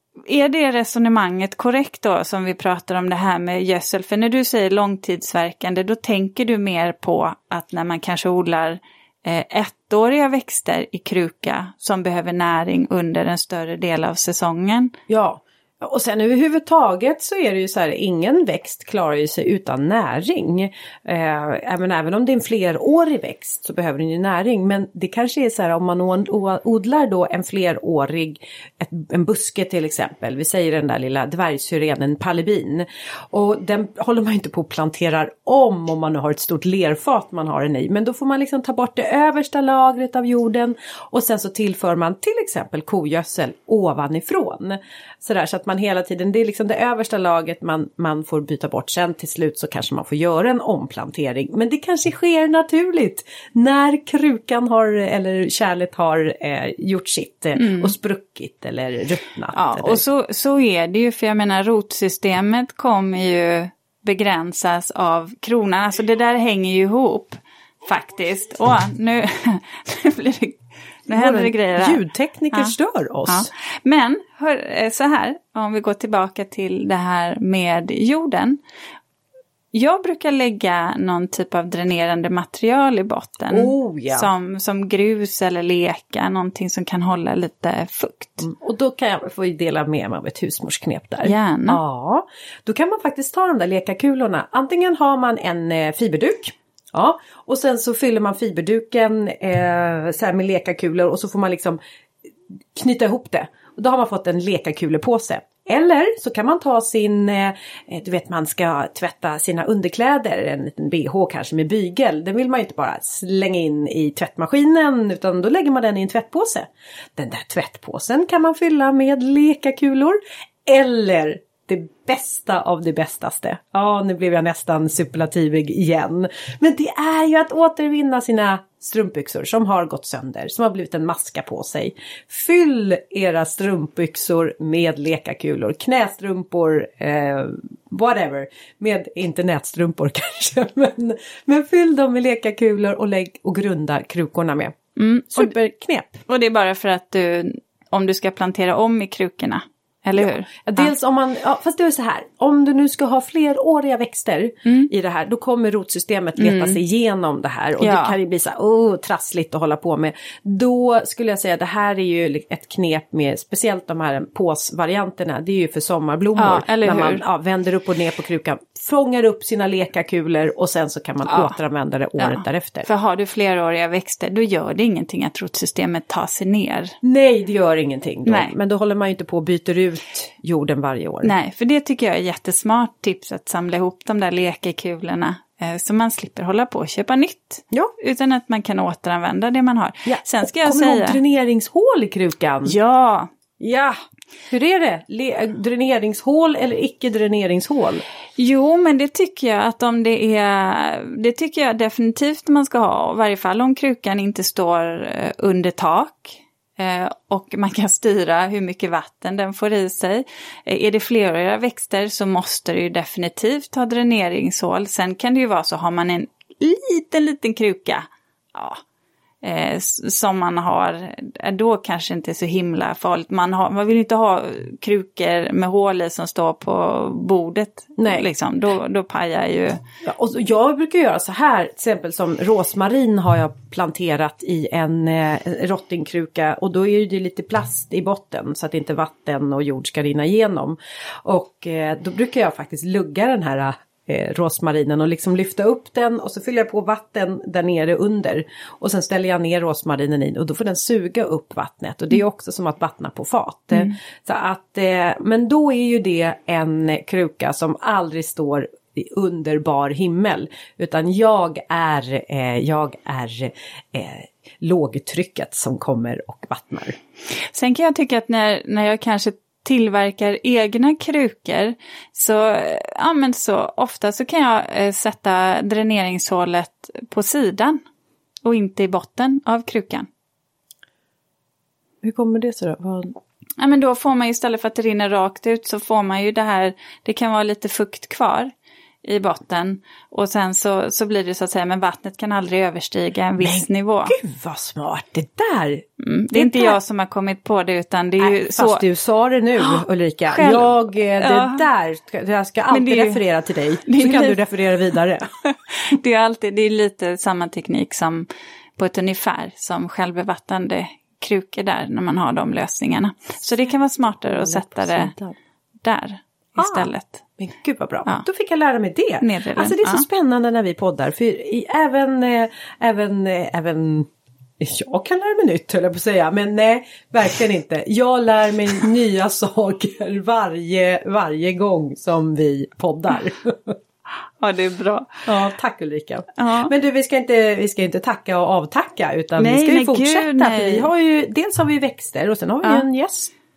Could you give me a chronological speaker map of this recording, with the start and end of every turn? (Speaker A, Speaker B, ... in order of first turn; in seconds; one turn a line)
Speaker A: 0.2-14.9
Speaker B: 15.1-60.0
Speaker A: 57.5-57.9
Speaker A: 59.5-72.7
Speaker B: 71.2-73.5
Speaker A: 73.3-78.6
Speaker A: 79.7-88.5
Speaker B: 83.5-84.3
Speaker B: 88.4-101.8
Speaker A: 91.2-91.8
Speaker B: 102.7-144.8
Speaker A: 144.9-145.5
Speaker B: 145.3-146.2
Speaker A: 146.3-150.9
Speaker B: 150.2-172.9
Speaker A: 154.6-154.9
Speaker A: 156.4-156.8
Speaker A: 157.8-158.2
Speaker A: 166.4-167.2
Speaker A: 171.2-171.6
Speaker A: 172.2-176.9
Speaker B: 177.0-181.3
Speaker A: 178.2-178.5
Speaker A: 181.2-191.2
Speaker B: 190.1-192.8
Speaker A: 192.6-193.3
Speaker B: 193.6-194.0
Speaker B: 194.5-198.0
Speaker A: 198.4-218.8
Speaker A: 219.4-229.8
Speaker B: 228.0-228.3
Speaker B: 230.0-266.9
Speaker A: 267.5-277.8
Speaker A: 278.4-280.1
Speaker B: 282.0-283.2
Speaker A: 283.6-288.5
Speaker A: 289.0-294.2
Speaker B: 293.4-296.8
Speaker A: 296.0-298.8
Speaker B: 298.2-305.3
Speaker A: 299.6-301.7
Speaker A: 302.7-303.2
Speaker A: 303.9-304.4
Speaker A: 305.4-315.1
Speaker B: 314.3-315.4
Speaker A: 315.8-317.2
Speaker B: 316.6-333.8
Speaker A: 319.2-320.1
Speaker A: 334.4-335.3
Speaker B: 335.2-343.3
Speaker A: 336.4-336.7
Speaker A: 339.4-340.9